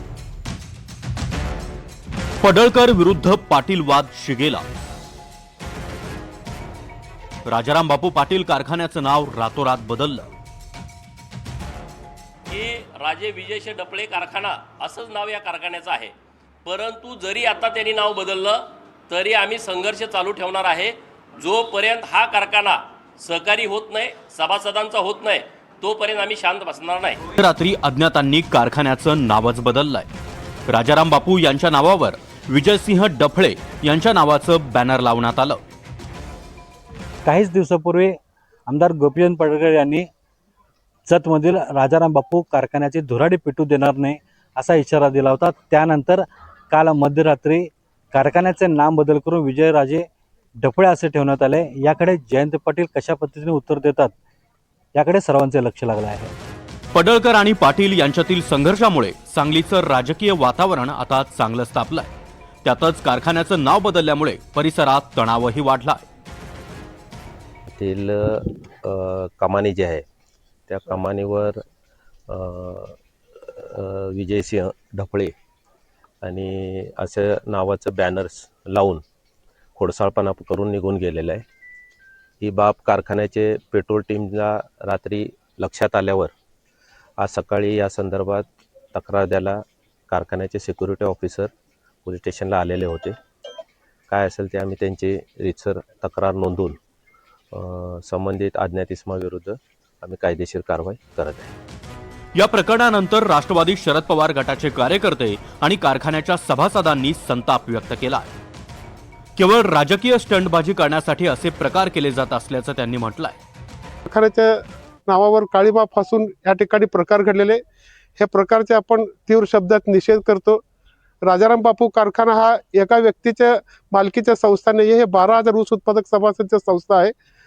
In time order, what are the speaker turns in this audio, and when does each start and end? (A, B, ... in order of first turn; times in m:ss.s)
0:02.4-0:04.6 A
0:07.4-0:10.3 A
0:12.5-0:16.1 B
0:16.6-0:27.2 B
0:27.3-0:30.1 A
0:30.7-0:35.6 A
0:37.2-0:38.2 C
0:38.7-0:40.1 C
0:41.1-0:50.1 C
0:50.6-0:54.1 C
0:55.0-0:56.3 C
0:56.9-1:02.1 A
1:02.6-1:06.0 A
1:07.7-1:10.0 D
1:10.7-1:11.6 D
1:12.3-1:13.0 D
1:13.5-1:15.3 D
1:16.2-1:19.0 D
1:19.8-1:21.4 D
1:22.4-1:26.3 D
1:27.2-1:31.5 D
1:32.0-1:33.2 D
1:34.1-1:36.8 D
1:37.5-1:41.5 D
1:42.3-1:48.3 A
1:49.4-1:53.4 A
1:54.1-1:57.6 E
1:58.2-2:00.6 E
2:01.2-2:07.1 E